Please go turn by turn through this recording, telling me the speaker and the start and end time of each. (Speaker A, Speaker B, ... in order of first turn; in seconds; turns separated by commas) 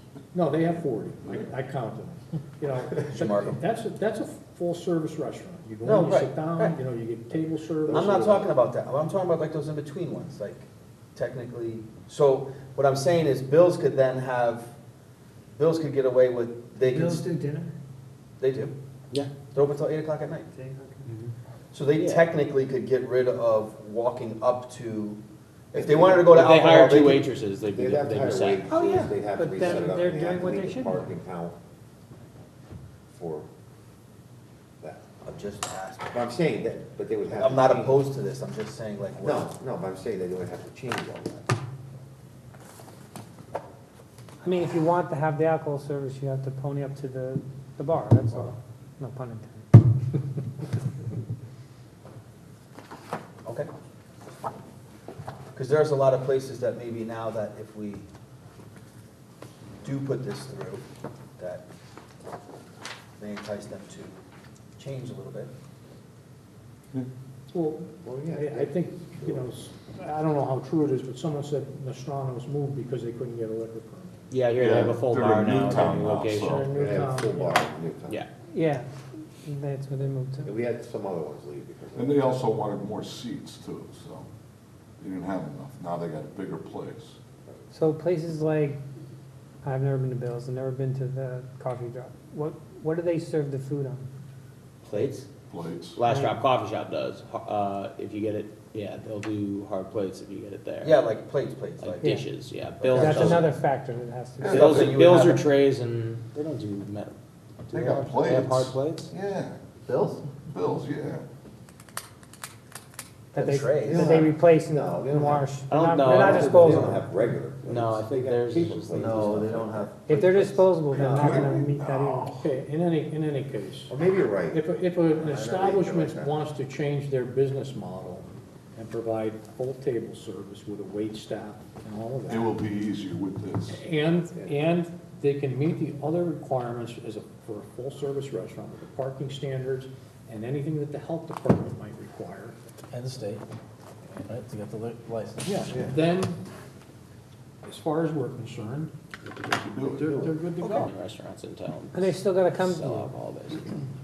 Speaker A: 0.3-8.4, Speaker B: 3.0-3.6, Speaker B: 5.8-6.8, Speaker C: 7.9-8.5, Speaker B: 7.9-14.7, Speaker B: 15.6-17.2, Speaker A: 16.8-17.7, Speaker D: 17.2-17.7, Speaker B: 18.4-18.7, Speaker B: 19.5-20.5, Speaker D: 20.6-21.0, Speaker E: 21.1-21.3, Speaker B: 21.7-25.2, Speaker E: 22.0-22.3, Speaker B: 25.7-27.2, Speaker C: 25.7-26.5, Speaker E: 26.3-28.9, Speaker C: 27.7-31.6, Speaker A: 28.7-30.5, Speaker D: 29.4-31.0, Speaker C: 33.1-33.5, Speaker B: 35.2-36.2, Speaker C: 36.1-38.0, Speaker B: 37.3-39.5, Speaker C: 39.2-41.5, Speaker D: 44.4-49.7, Speaker B: 55.5-58.1, Speaker B: 59.8-60.8, Speaker B: 61.4-61.6, Speaker B: 63.2-64.2, Speaker B: 64.8-65.5, Speaker A: 67.5-74.2, Speaker C: 68.0-69.4, Speaker E: 74.3-76.7, Speaker F: 74.6-76.4, Speaker A: 76.4-77.7, Speaker C: 76.7-78.2, Speaker D: 78.5-78.9, Speaker D: 79.5-80.5, Speaker C: 80.4-82.4, Speaker F: 82.0-84.3, Speaker F: 85.0-87.2, Speaker D: 87.7-88.8, Speaker D: 89.6-94.1, Speaker E: 94.8-95.3, Speaker F: 95.5-96.0, Speaker E: 96.0-101.0, Speaker B: 100.8-102.2, Speaker E: 101.8-103.5, Speaker B: 102.8-103.5, Speaker D: 103.0-104.7, Speaker A: 103.0-103.6, Speaker B: 104.4-105.5, Speaker E: 104.5-107.2, Speaker A: 104.6-105.1, Speaker E: 107.7-109.1, Speaker F: 107.8-109.6, Speaker B: 109.9-110.2, Speaker F: 110.5-111.2, Speaker B: 113.3-114.2, Speaker D: 113.3-115.8, Speaker A: 113.5-114.2, Speaker C: 113.9-120.2, Speaker A: 115.0-117.0, Speaker E: 115.7-117.0, Speaker E: 117.6-119.9, Speaker B: 119.0-119.8, Speaker D: 120.1-122.3, Speaker C: 120.9-121.6, Speaker F: 121.2-122.2, Speaker A: 122.1-123.9, Speaker C: 123.9-126.3, Speaker A: 124.5-132.4, Speaker F: 132.3-133.8, Speaker A: 133.7-142.6, Speaker G: 142.9-143.4, Speaker G: 144.2-145.8, Speaker A: 145.4-146.3, Speaker A: 147.6-148.9, Speaker E: 149.3-153.8, Speaker F: 149.7-150.2, Speaker A: 150.1-150.9, Speaker B: 150.6-150.9, Speaker D: 151.9-153.1